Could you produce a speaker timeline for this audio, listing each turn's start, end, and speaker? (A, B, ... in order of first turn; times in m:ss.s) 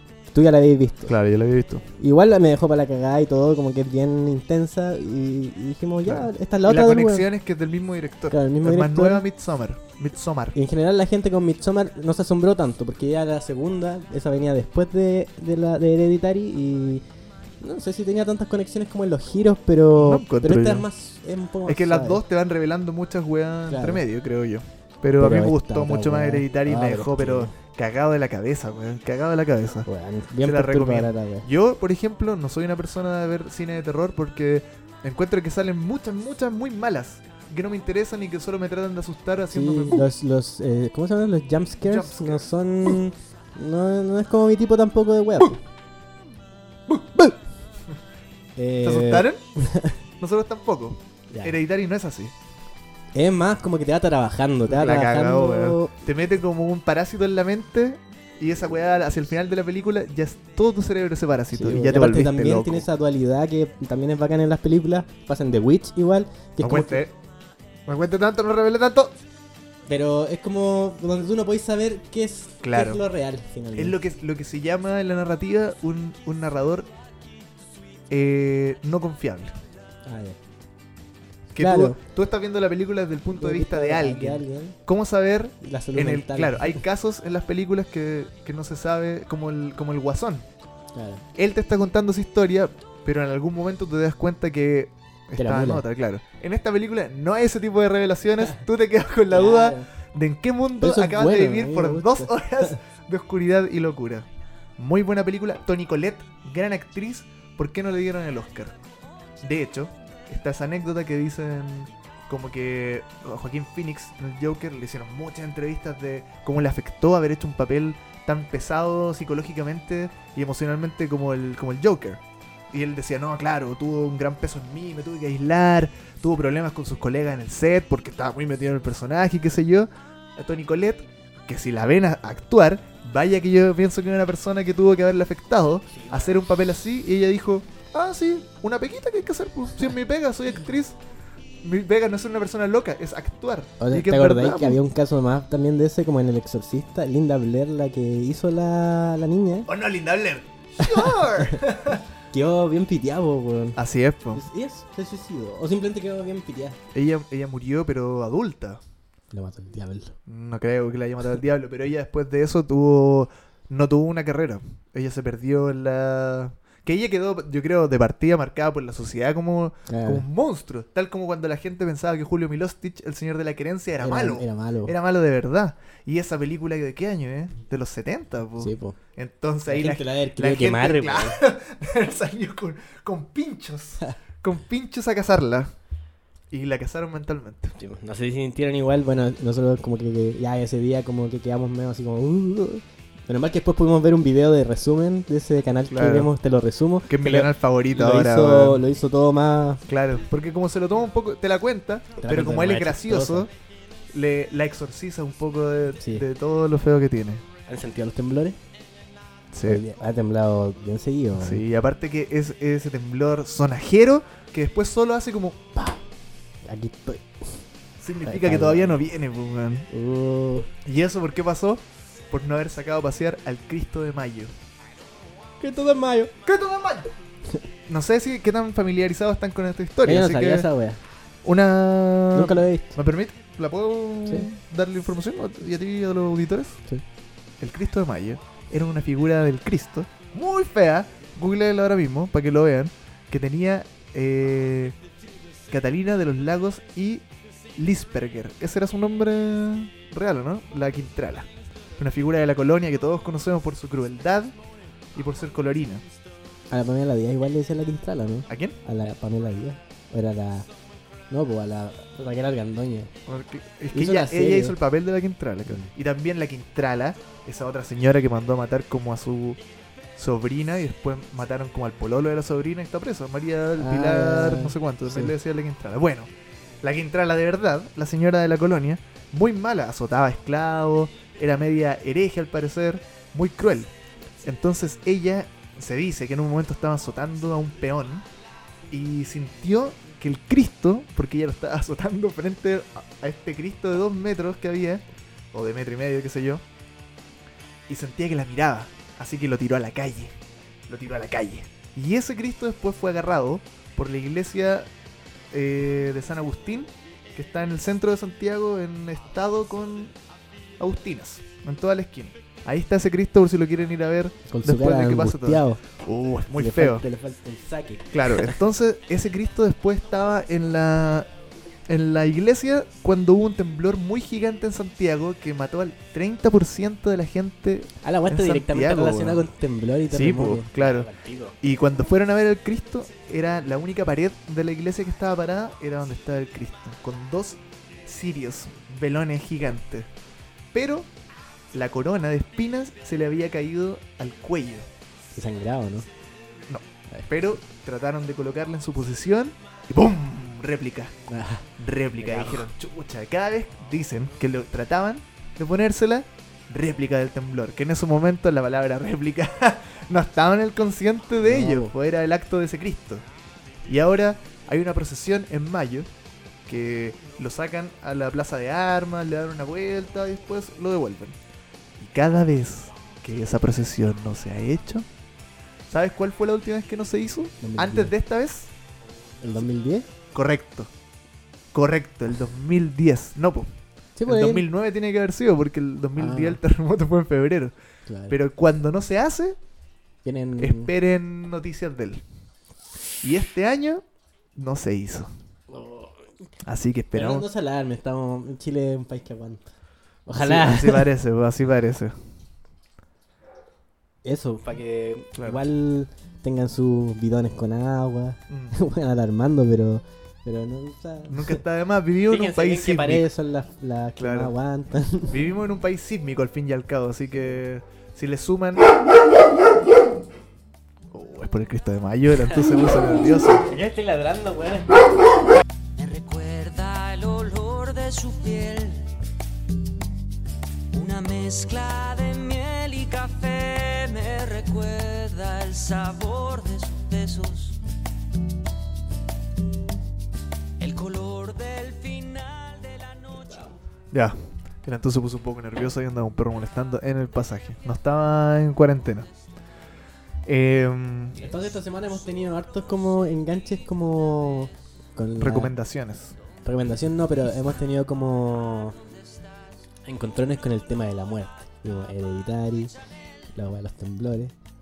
0:00.3-0:01.2 A
0:01.1-0:01.9 B
0:02.0-0:07.3 A
0:06.1-0:10.6 B
0:08.3-0:09.2 A
0:10.5-0:17.0 A
0:17.6-0:22.2 A
0:20.0-0:20.9 B
0:21.7-0:29.9 B
0:23.7-0:24.0 A
0:25.2-0:27.5 A
0:29.9-0:31.5 A
0:30.4-0:40.1 B
0:39.5-0:45.6 A
0:41.8-0:43.0 B
0:46.9-0:47.4 B
0:48.6-0:50.0 A
0:48.8-0:49.4 B
0:50.2-0:52.3 B
0:51.3-0:51.6 A
0:53.2-0:55.9 A
0:54.7-1:02.9 B
1:01.5-1:07.0 A
1:06.6-1:07.1 B
1:07.9-1:09.2 B
1:09.9-1:14.0 A
1:12.6-1:13.0 B
1:13.8-1:16.9 B
1:18.1-1:19.6 B
1:20.1-1:20.4 A
1:21.5-1:30.5 B
1:21.6-1:22.0 A
1:23.3-1:24.8 A
1:25.6-1:26.8 A
1:30.9-1:31.2 A
1:31.4-1:48.8 B
1:35.4-1:35.8 A
1:39.3-1:39.9 A
1:40.8-1:42.7 A
1:49.4-2:21.0 B
2:15.9-2:16.4 A
2:21.6-2:24.8 B
2:23.8-2:29.7 A
2:29.7-2:32.0 B
2:30.8-2:31.6 A
2:32.3-2:33.8 A
2:33.8-2:34.4 B
2:34.3-2:36.8 A
2:36.9-2:38.8 B
2:39.3-2:40.2 A
2:40.3-3:05.7 B
2:49.9-2:50.3 A
2:54.0-2:55.0 A
2:58.6-2:59.0 A
2:59.7-3:01.4 A
3:06.5-3:07.8 B
3:07.8-3:19.8 A
3:15.9-3:16.3 B
3:17.1-3:18.8 B
3:19.9-3:23.5 B
3:22.2-3:23.5 A
3:24.1-3:27.4 B
3:26.0-3:26.2 A
3:27.7-3:28.6 A
3:29.5-3:29.8 B
3:29.7-3:31.6 A
3:31.4-3:35.6 B
3:35.8-3:36.0 A
3:36.6-3:37.6 A
3:38.0-3:39.9 B
3:38.2-3:39.0 A
3:39.9-3:40.7 A
3:40.8-3:44.5 B
3:45.6-3:46.3 A
3:46.4-3:47.1 B
3:47.9-3:50.7 B
3:50.0-3:51.0 A
3:51.4-3:56.8 B
3:52.3-3:53.0 A
3:57.6-4:05.0 B
4:05.7-4:07.2 B
4:07.8-4:14.6 B
4:15.2-4:16.0 B
4:16.7-4:20.7 A
4:18.5-4:18.8 B
4:21.3-4:23.1 A
4:23.3-4:29.6 B
4:23.9-4:24.8 A
4:30.2-4:36.3 B
4:33.8-4:35.3 A
4:36.8-4:43.9 B
4:44.4-4:48.3 B
4:48.9-4:56.6 B
4:57.9-5:00.4 B
5:00.9-5:04.9 B
5:05.5-5:10.2 B
5:10.8-5:17.0 B
5:14.5-5:15.8 A
5:16.6-5:18.6 A
5:18.1-5:21.3 B
5:21.9-5:29.5 B
5:28.0-5:31.6 A
5:30.1-5:31.1 B
5:31.6-5:40.1 B
5:40.7-5:41.1 B
5:41.7-5:44.9 B
5:45.4-5:46.1 A
5:46.7-5:51.2 B
5:51.3-5:52.7 A
5:51.8-6:03.2 B
6:01.4-6:01.9 A
6:03.9-6:06.1 B
6:06.7-6:11.4 B
6:12.0-6:15.1 B
6:15.9-6:18.7 B
6:17.6-6:18.1 A
6:19.4-6:20.1 A
6:20.3-6:20.9 B
6:21.7-6:23.7 B
6:24.2-6:24.7 A
6:24.3-6:27.7 B
6:26.2-6:26.6 A
6:28.1-6:28.4 A
6:28.3-6:29.6 B
6:30.2-6:30.9 A
6:30.6-6:32.2 B
6:33.2-6:34.0 B
6:34.6-6:35.3 B
6:35.7-6:36.3 A
6:36.6-6:37.5 B
6:37.1-6:39.6 A
6:40.3-6:41.1 A
6:40.4-6:42.2 B
6:44.2-6:51.6 A
6:45.4-6:45.6 B
6:48.5-6:48.8 B
6:51.3-6:53.3 B
6:52.3-6:55.4 A
6:54.2-6:54.5 B
6:55.3-6:58.9 B
7:01.1-7:03.6 B
7:03.6-7:04.9 A
7:06.0-7:09.1 C
7:10.9-7:17.8 C
7:20.8-7:23.7 C
7:24.1-7:29.3 B
7:30.5-7:31.4 B
7:31.4-7:35.7 A
7:35.4-7:36.4 B
7:36.6-7:39.0 A
7:40.1-7:42.9 A
7:43.6-7:44.5 A